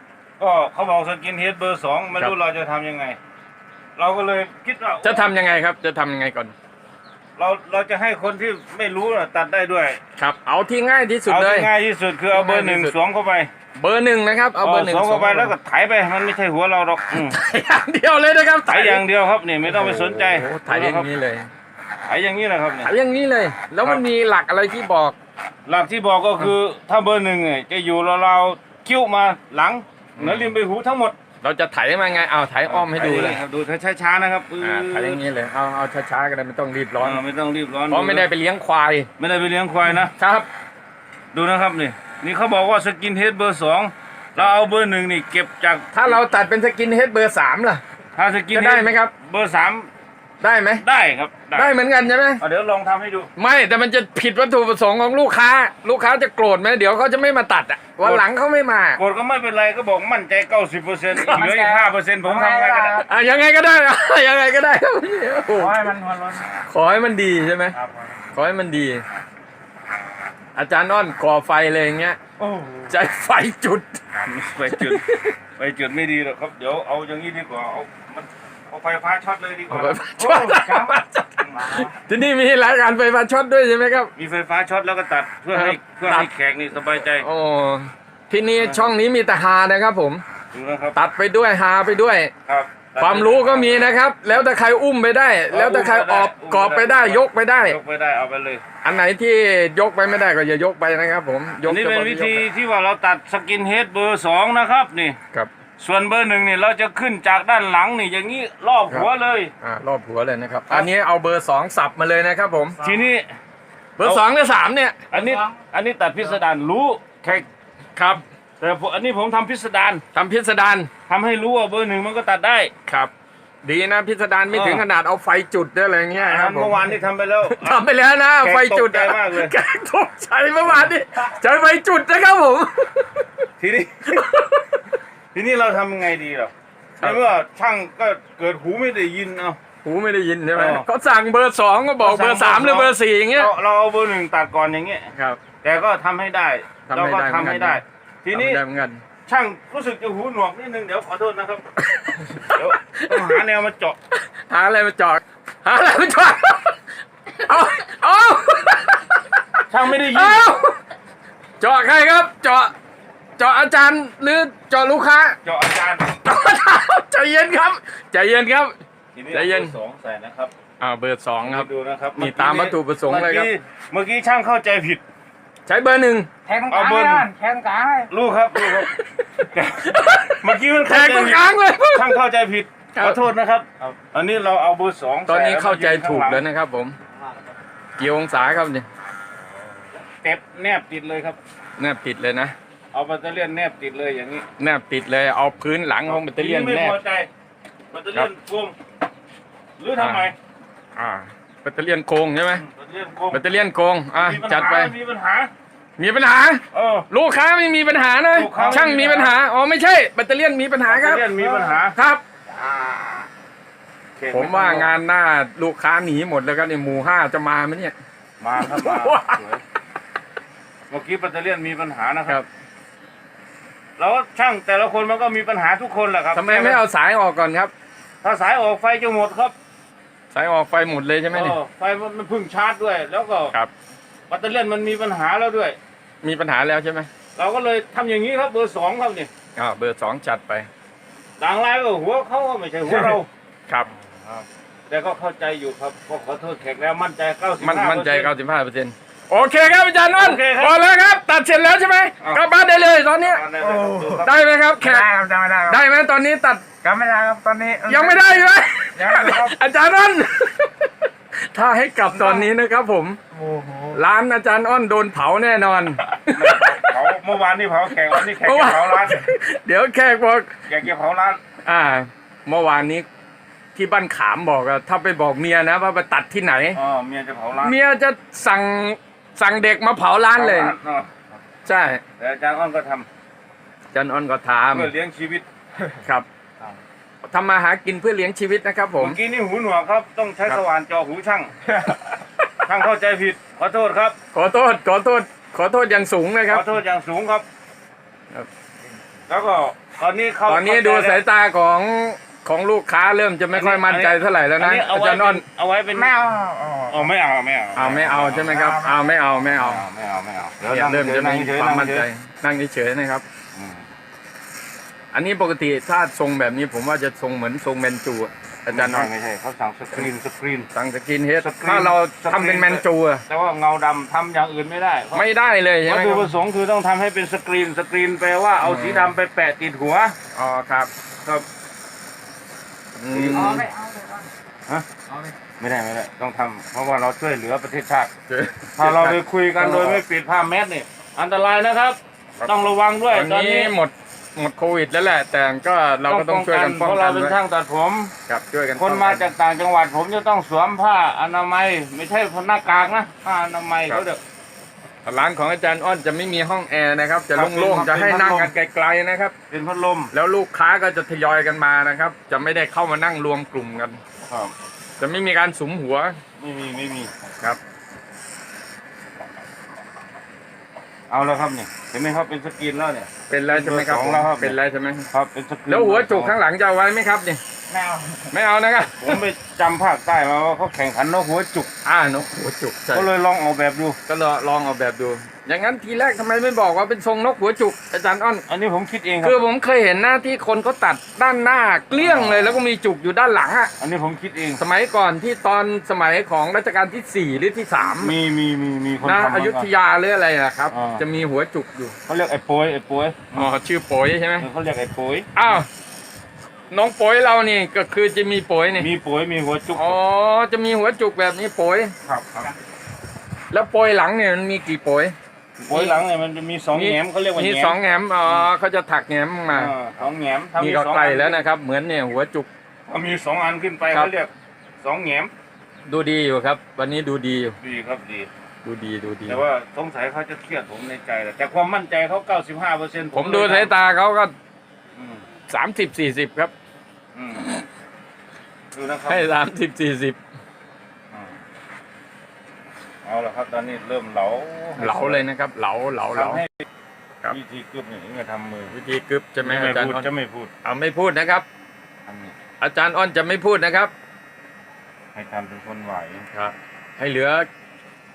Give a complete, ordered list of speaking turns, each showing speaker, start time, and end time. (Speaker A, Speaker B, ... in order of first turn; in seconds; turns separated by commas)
Speaker A: 0.4-3.2, Speaker A: 4.0-5.2, Speaker B: 5.0-6.5, Speaker A: 7.4-10.0, Speaker B: 10.2-11.7, Speaker A: 11.3-13.5, Speaker B: 12.3-12.9, Speaker B: 13.8-15.5, Speaker A: 14.6-17.4, Speaker B: 17.1-19.0, Speaker A: 18.7-21.1, Speaker B: 19.6-21.5, Speaker A: 22.1-22.9, Speaker B: 22.8-25.1, Speaker A: 25.6-31.2, Speaker B: 30.2-30.5, Speaker B: 31.4-33.4, Speaker A: 32.7-35.2, Speaker B: 34.6-37.2, Speaker A: 37.0-38.3, Speaker B: 37.9-39.1, Speaker A: 39.2-40.1, Speaker B: 40.1-40.5, Speaker A: 41.3-46.2, Speaker B: 45.9-47.8, Speaker A: 48.1-49.9, Speaker B: 48.5-49.1, Speaker B: 50.4-50.8, Speaker A: 50.8-51.7, Speaker B: 51.5-52.4, Speaker A: 52.4-53.3, Speaker B: 53.4-59.0, Speaker A: 59.0-63.0, Speaker C: 61.2-63.0, Speaker B: 62.9-65.9, Speaker C: 65.5-66.5, Speaker B: 66.6-67.8, Speaker A: 67.8-68.1, Speaker B: 68.3-69.0, Speaker B: 70.5-72.2, Speaker C: 72.4-72.9, Speaker B: 72.9-74.0, Speaker A: 74.2-75.0, Speaker B: 74.7-75.4, Speaker A: 75.5-80.0, Speaker B: 79.7-84.1, Speaker C: 80.2-81.9, Speaker A: 84.2-87.3, Speaker B: 85.5-86.3, Speaker B: 87.1-90.2, Speaker A: 88.6-89.0, Speaker A: 90.5-91.0, Speaker B: 90.9-92.3, Speaker A: 92.5-93.9, Speaker B: 93.0-97.8, Speaker A: 95.5-98.6, Speaker B: 98.8-102.4, Speaker A: 101.6-105.2, Speaker A: 105.8-109.5, Speaker B: 109.6-112.8, Speaker A: 112.8-113.3, Speaker B: 114.0-115.0, Speaker A: 114.0-114.2, Speaker A: 115.1-117.5, Speaker C: 115.1-115.6, Speaker B: 118.0-118.2, Speaker A: 118.6-120.0, Speaker B: 120.1-120.9, Speaker A: 121.1-122.7, Speaker B: 122.9-123.1, Speaker B: 123.6-133.3, Speaker A: 124.5-124.9, Speaker A: 126.1-127.8, Speaker A: 128.4-129.5, Speaker A: 130.7-130.9, Speaker A: 133.6-134.3, Speaker B: 134.1-134.8, Speaker A: 135.3-139.6, Speaker B: 139.8-143.5, Speaker A: 140.5-140.9, Speaker A: 142.0-145.1, Speaker B: 145.1-145.4, Speaker A: 145.6-148.6, Speaker B: 146.9-147.8, Speaker B: 148.3-149.0, Speaker A: 149.2-151.7, Speaker B: 151.8-153.4, Speaker A: 152.4-154.0, Speaker B: 154.1-156.8, Speaker B: 157.3-160.8, Speaker A: 159.7-160.5, Speaker B: 161.6-162.7, Speaker B: 163.4-165.4, Speaker A: 165.4-166.2, Speaker B: 166.2-168.7, Speaker A: 169.2-170.5, Speaker B: 169.3-169.7, Speaker B: 170.8-173.5, Speaker A: 171.4-175.0, Speaker B: 175.7-176.3, Speaker C: 176.5-178.1, Speaker A: 176.7-177.3, Speaker A: 178.1-178.9, Speaker B: 178.6-182.2, Speaker A: 179.5-186.5, Speaker B: 182.9-183.2, Speaker B: 185.3-187.0, Speaker B: 188.0-188.9, Speaker A: 190.0-191.4, Speaker B: 191.8-192.5, Speaker A: 192.9-194.5, Speaker B: 194.6-197.0, Speaker A: 196.1-197.3, Speaker A: 197.9-198.8, Speaker A: 199.8-200.3, Speaker B: 200.0-200.3, Speaker B: 201.0-202.7, Speaker A: 202.6-203.4, Speaker B: 203.3-204.9, Speaker A: 204.2-205.5, Speaker B: 206.0-212.2, Speaker A: 206.7-207.1, Speaker A: 208.3-209.3, Speaker A: 210.9-211.9, Speaker A: 212.5-213.3, Speaker A: 214.2-214.9, Speaker B: 214.3-217.9, Speaker A: 218.4-219.6, Speaker B: 218.6-219.4, Speaker A: 220.9-222.4, Speaker A: 224.0-226.8, Speaker B: 226.3-227.7, Speaker A: 228.2-229.5, Speaker B: 230.3-231.6, Speaker A: 231.3-233.5, Speaker A: 234.3-235.8, Speaker B: 236.2-237.1, Speaker A: 237.3-239.3, Speaker B: 239.6-240.7, Speaker A: 241.4-243.3, Speaker B: 242.8-243.2, Speaker A: 244.2-248.3, Speaker B: 247.6-253.4, Speaker A: 250.1-250.8, Speaker A: 253.2-254.4, Speaker C: 253.6-254.3, Speaker B: 254.2-255.1, Speaker C: 254.8-255.8, Speaker B: 255.7-256.6, Speaker C: 256.8-258.4, Speaker B: 257.9-263.2, Speaker C: 258.9-259.6, Speaker C: 262.1-262.5, Speaker C: 263.3-264.0, Speaker B: 263.9-266.8, Speaker A: 266.3-269.3, Speaker B: 268.1-270.6, Speaker A: 270.7-271.4, Speaker B: 271.6-273.1, Speaker B: 273.8-276.8, Speaker A: 276.8-277.8, Speaker B: 277.6-280.7, Speaker A: 280.4-281.2, Speaker B: 281.6-282.0, Speaker A: 282.2-283.1, Speaker B: 283.9-284.9, Speaker A: 284.7-285.5, Speaker B: 287.2-289.2, Speaker A: 289.0-291.6, Speaker A: 292.6-294.2, Speaker B: 294.3-296.7, Speaker A: 296.5-297.5, Speaker A: 299.3-301.2, Speaker B: 300.5-305.4, Speaker A: 303.5-306.2, Speaker C: 305.9-307.1, Speaker A: 306.9-308.6, Speaker B: 307.8-309.8, Speaker C: 308.5-309.0, Speaker A: 309.5-312.1, Speaker B: 310.6-313.2, Speaker A: 313.5-313.9, Speaker B: 315.1-319.1, Speaker A: 318.7-320.7, Speaker B: 320.7-323.2, Speaker A: 321.4-325.2, Speaker B: 325.1-326.3, Speaker A: 325.9-330.2, Speaker B: 328.6-329.1, Speaker B: 330.3-330.9, Speaker B: 333.0-333.7, Speaker A: 333.1-333.7, Speaker C: 333.3-334.3, Speaker A: 335.6-338.1, Speaker B: 338.3-340.0, Speaker A: 338.8-343.8, Speaker B: 343.1-347.4, Speaker A: 346.1-348.1, Speaker B: 348.3-349.3, Speaker A: 348.8-354.2, Speaker B: 355.1-359.3, Speaker A: 357.3-358.5, Speaker A: 359.5-360.1, Speaker B: 360.1-364.0, Speaker A: 364.3-364.5, Speaker B: 365.0-366.2, Speaker A: 366.4-367.1, Speaker A: 371.1-374.6, Speaker B: 373.3-375.1, Speaker A: 375.1-376.4, Speaker B: 375.7-377.4, Speaker C: 377.7-378.3, Speaker B: 378.3-379.2, Speaker A: 379.0-381.7, Speaker B: 381.9-383.1, Speaker A: 382.9-384.0, Speaker B: 384.1-388.4, Speaker A: 388.5-389.4, Speaker B: 389.2-393.7, Speaker A: 391.9-392.6, Speaker A: 393.8-394.6, Speaker B: 394.6-398.1, Speaker A: 397.9-399.7, Speaker B: 399.0-402.0, Speaker A: 400.7-401.1, Speaker A: 402.1-403.5, Speaker B: 403.3-404.5, Speaker A: 404.4-405.3, Speaker B: 405.3-405.7, Speaker B: 406.7-408.9, Speaker A: 408.8-410.0, Speaker B: 409.8-411.9, Speaker A: 412.1-412.5, Speaker B: 413.5-415.1, Speaker A: 415.6-418.5, Speaker B: 415.7-416.0, Speaker B: 416.7-419.7, Speaker A: 419.5-421.4, Speaker B: 420.6-422.5, Speaker A: 422.9-425.3, Speaker B: 425.9-427.6, Speaker A: 427.6-428.3, Speaker B: 428.6-429.4, Speaker A: 429.3-433.7, Speaker B: 433.1-434.3, Speaker A: 435.0-435.2, Speaker B: 435.5-436.5, Speaker A: 437.1-437.6, Speaker A: 438.7-439.4, Speaker B: 439.1-440.2, Speaker A: 443.1-445.3, Speaker B: 444.8-446.4, Speaker A: 446.1-446.6, Speaker A: 447.3-448.7, Speaker B: 448.7-450.1, Speaker A: 449.4-450.5, Speaker B: 450.6-451.5, Speaker A: 452.1-452.4, Speaker B: 452.6-453.9, Speaker A: 455.1-456.3, Speaker B: 456.3-457.5